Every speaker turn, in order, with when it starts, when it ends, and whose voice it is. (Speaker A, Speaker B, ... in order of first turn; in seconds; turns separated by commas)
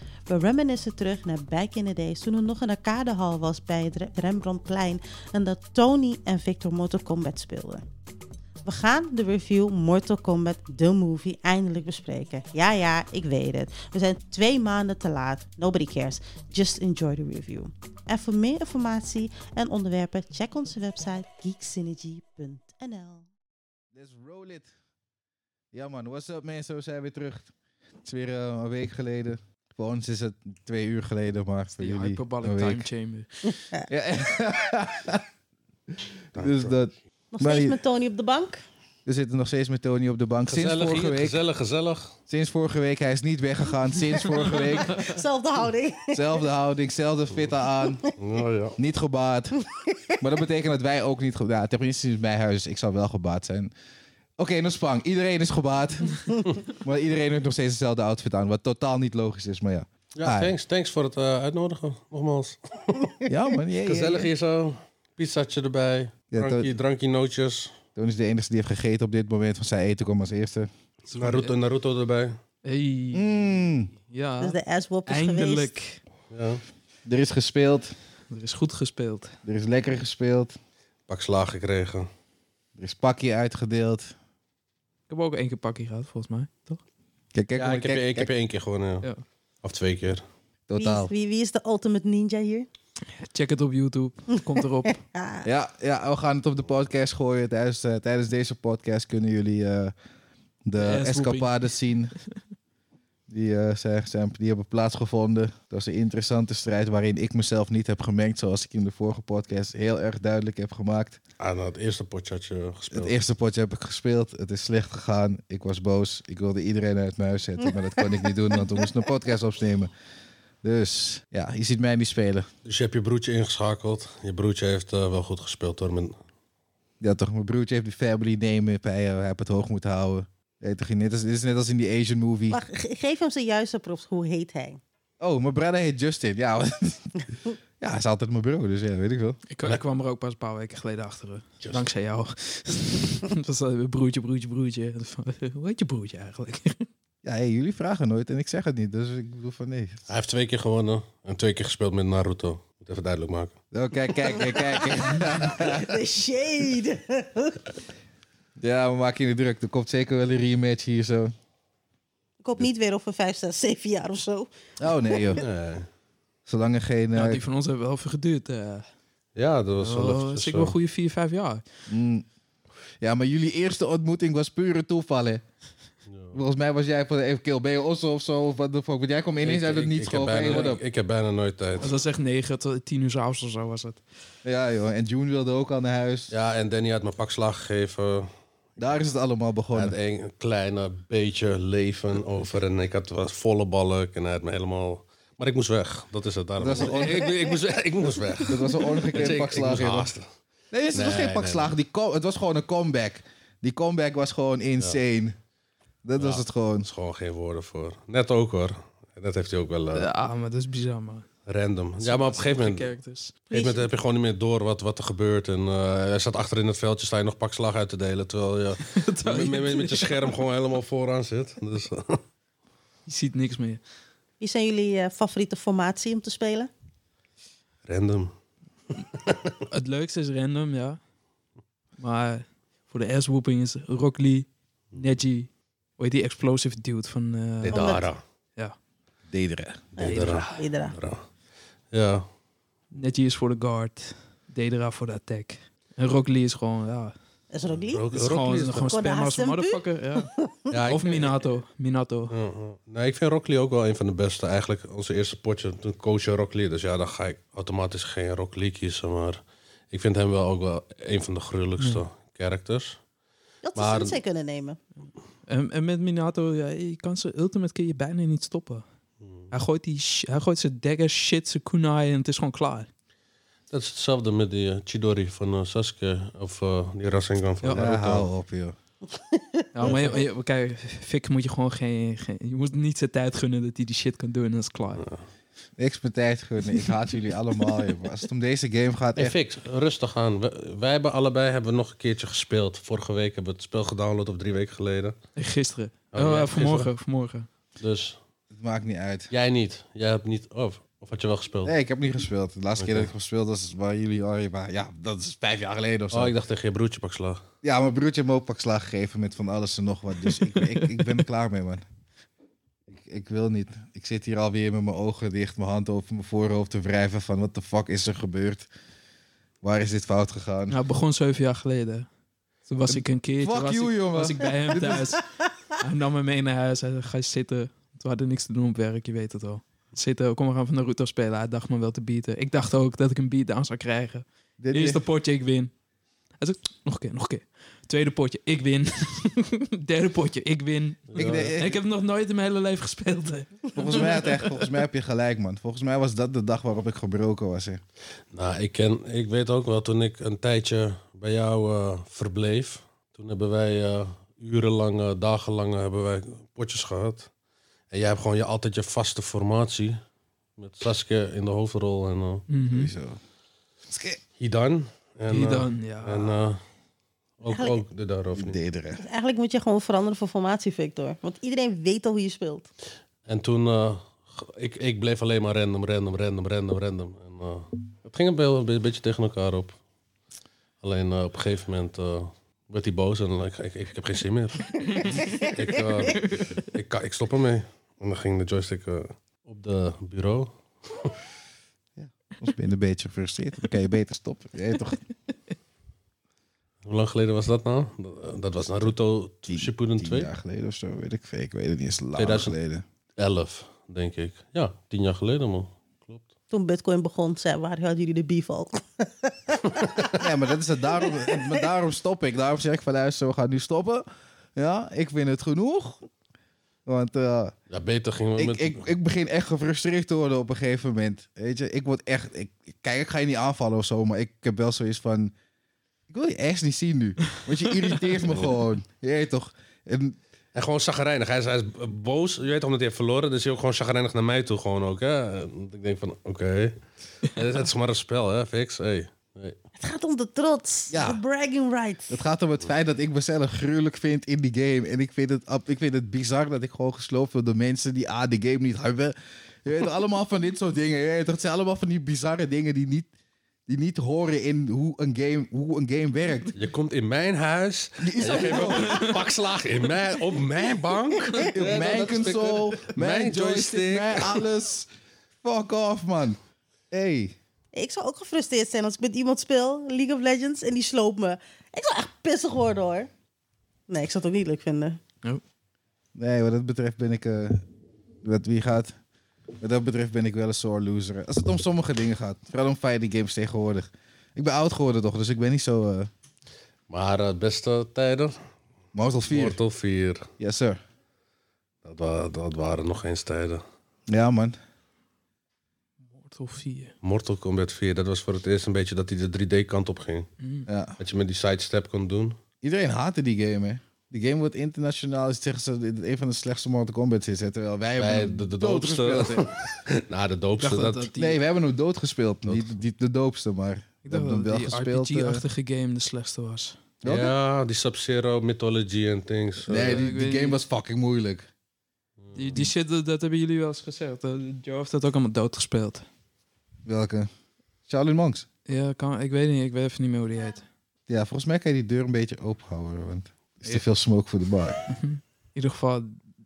Speaker A: 0.3-7.8, Speaker A: 8.6-23.2, Speaker B: 23.9-24.7, Speaker B: 25.7-27.5, Speaker B: 28.0-32.9, Speaker C: 31.8-33.3, Speaker A: 33.5-33.9, Speaker B: 33.9-35.2, Speaker D: 36.3-36.7, Speaker B: 36.3-37.8, Speaker A: 37.3-38.6, Speaker B: 39.0-41.4, Speaker D: 40.5-42.1, Speaker B: 42.3-45.2, Speaker A: 44.8-46.4, Speaker B: 46.1-48.0, Speaker D: 48.2-48.8, Speaker B: 48.8-49.5, Speaker B: 50.2-53.7, Speaker B: 54.4-60.5, Speaker D: 60.1-63.1, Speaker B: 63.2-64.3, Speaker D: 63.8-67.8, Speaker B: 66.3-66.7, Speaker B: 68.0-70.7, Speaker D: 71.1-72.4, Speaker C: 71.1-71.5, Speaker C: 72.6-73.3, Speaker B: 73.1-73.9, Speaker C: 74.1-76.0, Speaker A: 74.4-75.7, Speaker D: 76.3-76.6, Speaker B: 77.0-77.9, Speaker C: 78.3-79.3, Speaker B: 79.4-80.5, Speaker D: 81.1-82.1, Speaker B: 82.8-84.1, Speaker C: 85.1-86.8, Speaker B: 87.3-88.3, Speaker D: 87.5-89.1, Speaker D: 89.6-90.2, Speaker B: 90.7-91.1, Speaker A: 90.8-92.7, Speaker C: 93.2-95.0, Speaker A: 94.5-95.4, Speaker B: 95.4-99.9, Speaker B: 100.7-102.1, Speaker C: 100.8-101.5, Speaker B: 103.3-111.2, Speaker D: 111.4-113.2, Speaker B: 112.9-119.9, Speaker B: 120.6-122.5, Speaker D: 122.6-126.2, Speaker B: 127.0-132.6, Speaker A: 132.5-134.8, Speaker B: 135.2-139.4, Speaker C: 139.5-146.8, Speaker B: 147.2-150.0, Speaker D: 150.1-153.5, Speaker B: 153.7-155.9, Speaker A: 154.1-157.6, Speaker B: 158.6-161.3, Speaker A: 162.4-165.4, Speaker B: 164.8-165.4, Speaker D: 165.4-165.9, Speaker B: 166.5-167.4, Speaker C: 167.1-168.8, Speaker D: 169.3-170.7, Speaker C: 169.8-171.6, Speaker B: 171.9-172.2, Speaker B: 173.0-175.4, Speaker D: 176.1-176.4, Speaker B: 176.3-180.8, Speaker D: 179.4-181.9, Speaker C: 180.5-180.7, Speaker C: 181.8-184.0, Speaker B: 184.4-186.3, Speaker D: 186.3-188.3, Speaker B: 188.8-190.0, Speaker D: 189.7-200.3, Speaker B: 196.6-197.3, Speaker B: 198.5-200.1, Speaker B: 200.7-205.3, Speaker D: 200.9-201.7, Speaker B: 206.0-206.9, Speaker D: 206.2-210.1, Speaker C: 209.9-211.3, Speaker D: 211.4-212.9, Speaker C: 212.0-213.8, Speaker D: 213.5-222.2, Speaker A: 213.5-213.8, Speaker C: 218.8-220.4, Speaker C: 223.1-223.8, Speaker A: 224.4-226.7, Speaker D: 227.8-228.3, Speaker D: 228.9-229.6, Speaker C: 229.7-231.0, Speaker C: 232.0-238.0, Speaker D: 237.6-238.2, Speaker A: 237.7-238.1, Speaker B: 239.3-239.9, Speaker A: 239.9-240.9, Speaker D: 240.0-241.2, Speaker C: 240.0-240.4, Speaker D: 241.9-242.2, Speaker C: 242.9-247.1, Speaker A: 247.5-248.1, Speaker D: 247.8-248.9, Speaker C: 248.1-250.3, Speaker A: 248.7-250.7, Speaker D: 250.7-251.4, Speaker C: 250.9-252.3, Speaker D: 252.3-263.0, Speaker A: 263.6-264.8, Speaker D: 263.7-264.2, Speaker C: 265.5-268.8, Speaker D: 269.2-269.5, Speaker C: 269.5-272.9, Speaker D: 273.7-278.3, Speaker B: 277.8-278.7, Speaker A: 279.2-280.0, Speaker C: 279.7-285.0, Speaker D: 279.8-280.2, Speaker D: 284.9-285.2, Speaker B: 285.8-289.4, Speaker D: 289.1-295.1, Speaker C: 295.4-297.5, Speaker D: 296.1-296.9, Speaker D: 297.8-298.2, Speaker B: 298.5-299.3, Speaker D: 299.3-301.7, Speaker B: 301.6-306.3, Speaker D: 302.8-303.1, Speaker D: 306.1-307.4, Speaker B: 307.6-311.8, Speaker B: 312.9-318.7, Speaker B: 319.6-320.8, Speaker C: 320.7-322.1, Speaker C: 322.7-335.7, Speaker B: 322.9-325.2, Speaker B: 334.6-335.0, Speaker C: 336.4-344.6, Speaker D: 341.1-341.6, Speaker B: 341.1-341.8, Speaker B: 343.7-347.8, Speaker D: 348.3-357.3, Speaker D: 357.9-360.0, Speaker D: 360.6-362.5, Speaker C: 362.5-362.9, Speaker B: 362.7-363.2, Speaker B: 363.9-364.2, Speaker D: 364.4-366.6, Speaker C: 365.3-366.4, Speaker D: 367.4-368.6, Speaker A: 367.5-367.8, Speaker B: 368.3-369.0, Speaker A: 369.0-372.7, Speaker D: 373.2-379.7, Speaker D: 380.8-391.1, Speaker A: 384.9-386.2, Speaker B: 392.0-395.0, Speaker D: 396.8-400.3, Speaker B: 399.5-402.8, Speaker D: 402.2-402.5, Speaker D: 403.2-406.2, Speaker A: 406.5-410.0, Speaker B: 410.1-416.0, Speaker A: 411.0-411.6, Speaker B: 416.9-417.5, Speaker D: 417.7-418.8, Speaker B: 418.4-425.3, Speaker B: 426.1-430.2, Speaker D: 430.5-439.6, Speaker A: 439.8-442.2, Speaker B: 440.9-441.2, Speaker B: 442.1-453.1, Speaker B: 453.7-456.5, Speaker D: 456.5-464.5, Speaker B: 458.0-459.1, Speaker C: 458.3-459.2, Speaker A: 461.1-461.5, Speaker B: 461.5-464.9, Speaker C: 461.8-462.5, Speaker B: 465.4-466.4, Speaker B: 466.9-467.3, Speaker A: 467.7-473.1, Speaker A: 473.9-475.0, Speaker B: 476.1-477.6, Speaker B: 478.2-478.9, Speaker B: 479.6-486.1, Speaker D: 486.9-488.4, Speaker B: 488.9-489.6, Speaker D: 489.3-490.3, Speaker B: 490.4-490.8, Speaker D: 491.8-493.6, Speaker B: 494.1-494.6, Speaker C: 496.1-496.9, Speaker D: 497.0-500.3, Speaker C: 500.4-500.7, Speaker B: 500.7-501.0, Speaker D: 501.0-502.4, Speaker B: 502.6-509.7, Speaker D: 508.0-511.1, Speaker C: 510.6-511.4, Speaker B: 511.1-515.4, Speaker D: 512.5-512.7, Speaker C: 514.0-516.8, Speaker B: 517.0-517.3, Speaker D: 517.0-520.0, Speaker B: 519.7-521.5, Speaker C: 519.7-520.6, Speaker D: 522.2-522.6, Speaker C: 522.3-526.0, Speaker B: 526.8-527.3, Speaker B: 527.9-528.5, Speaker C: 528.7-530.6, Speaker B: 531.1-534.8, Speaker C: 534.9-536.2